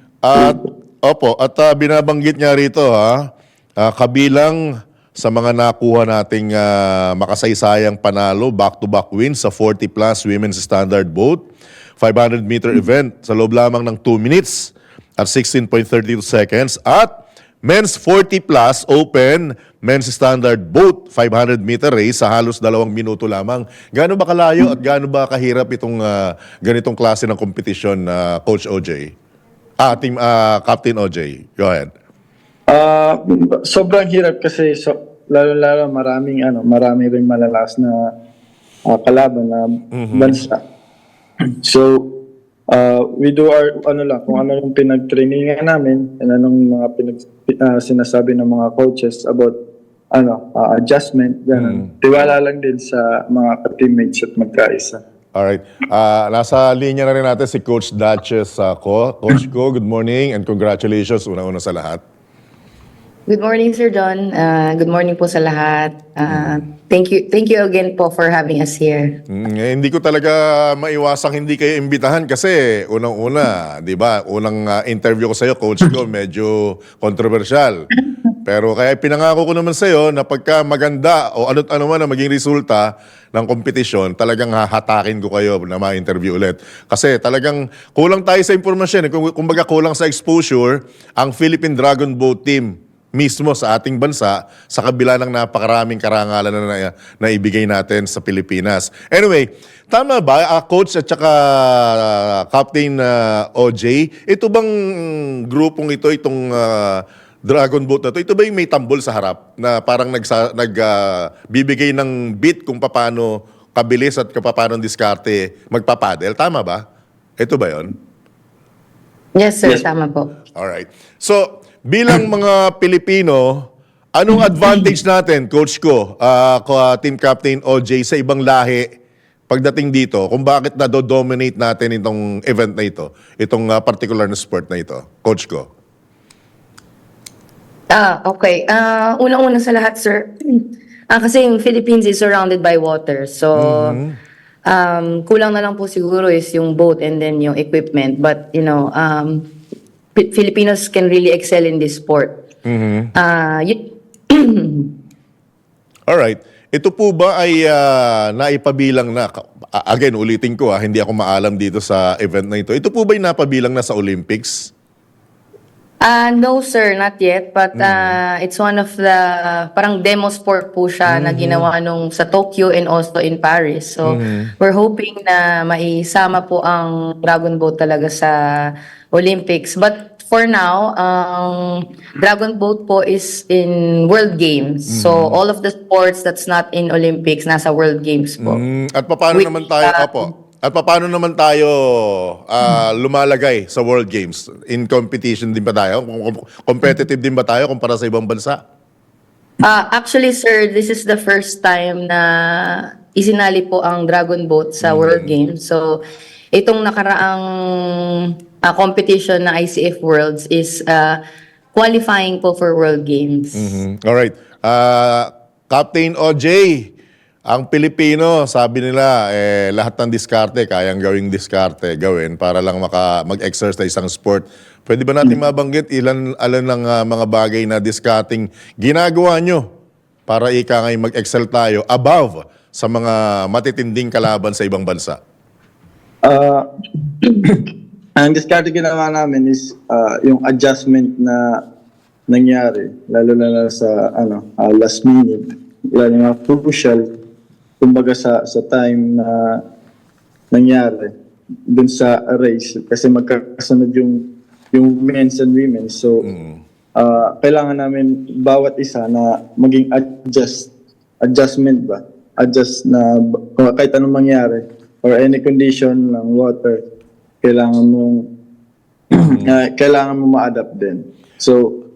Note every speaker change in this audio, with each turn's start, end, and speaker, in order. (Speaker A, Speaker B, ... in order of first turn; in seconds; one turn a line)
Speaker A: 0.2-3.2
Speaker B: 0.3-0.6
Speaker A: 3.8-4.6
Speaker A: 5.2-11.5
Speaker A: 12.0-17.1
Speaker A: 17.6-29.1
Speaker A: 29.8-31.9
Speaker B: 32.7-38.1
Speaker B: 38.9-40.6
Speaker A: 39.9-40.4
Speaker B: 41.6-42.1
Speaker B: 42.7-49.6
Speaker B: 50.1-55.0
Speaker A: 51.5-51.9
Speaker A: 55.4-62.0
Speaker C: 63.3-69.2
Speaker A: 66.3-66.6
Speaker A: 69.3-77.8
Speaker A: 78.5-116.8
Speaker A: 117.4-117.9
Speaker C: 119.3-120.3
Speaker A: 120.6-128.9
Speaker A: 129.5-135.7
Speaker C: 137.9-144.0
Speaker A: 143.6-144.2
Speaker C: 144.7-149.5
Speaker C: 150.2-152.4
Speaker A: 152.7-153.1
Speaker C: 153.2-154.9
Speaker A: 156.1-164.7
Speaker C: 166.0-188.6
Speaker A: 167.8-168.2
Speaker A: 171.1-171.7
Speaker A: 174.1-174.5
Speaker A: 184.9-185.4
Speaker A: 188.4-198.6
Speaker C: 189.3-190.2
Speaker C: 199.6-206.0
Speaker A: 204.8-205.3
Speaker C: 206.5-211.2
Speaker C: 211.8-213.8
Speaker A: 213.6-216.9
Speaker A: 217.5-229.6
Speaker A: 230.3-235.2
Speaker B: 236.2-236.6
Speaker B: 238.2-241.6
Speaker B: 242.3-247.1
Speaker B: 247.8-249.6
Speaker B: 250.5-251.1
Speaker B: 251.7-256.2
Speaker A: 256.2-256.6
Speaker B: 257.0-260.7
Speaker B: 261.2-266.8
Speaker B: 267.4-268.3
Speaker A: 269.1-269.5
Speaker B: 269.1-271.8